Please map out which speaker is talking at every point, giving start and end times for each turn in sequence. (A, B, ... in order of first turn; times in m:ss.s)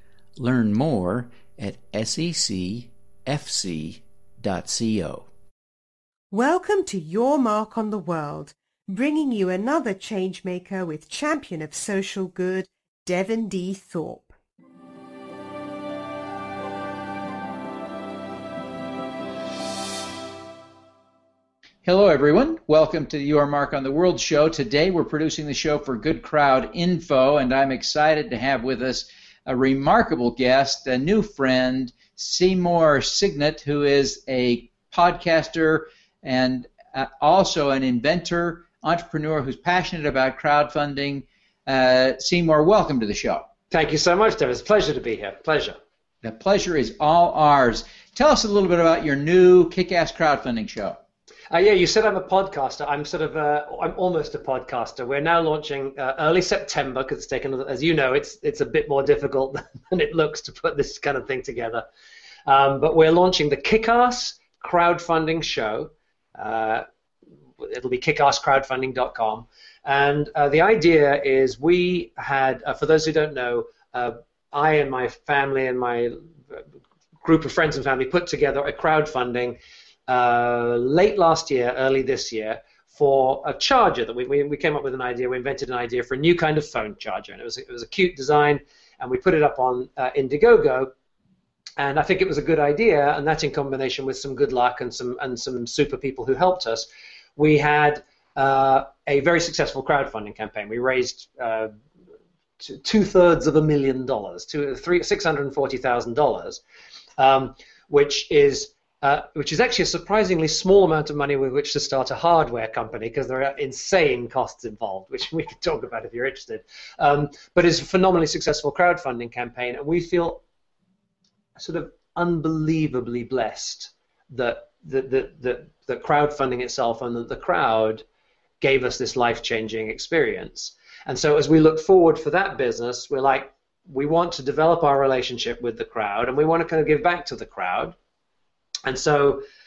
0:00.4-0:05.3 A
0:06.3-0:14.3 B
0:21.8-0:43.5 A
0:43.7-0:45.8 C
0:46.2-0:51.0 A
0:51.5-1:01.8 C
1:02.4-1:06.8 C
1:07.6-1:16.6 C
1:17.2-1:30.9 C
1:31.8-1:41.7 C
1:42.6-1:46.6 C
1:47.2-2:00.4 C
2:01.6-2:08.0 C
2:08.6-2:18.0 C
2:18.8-2:19.4 C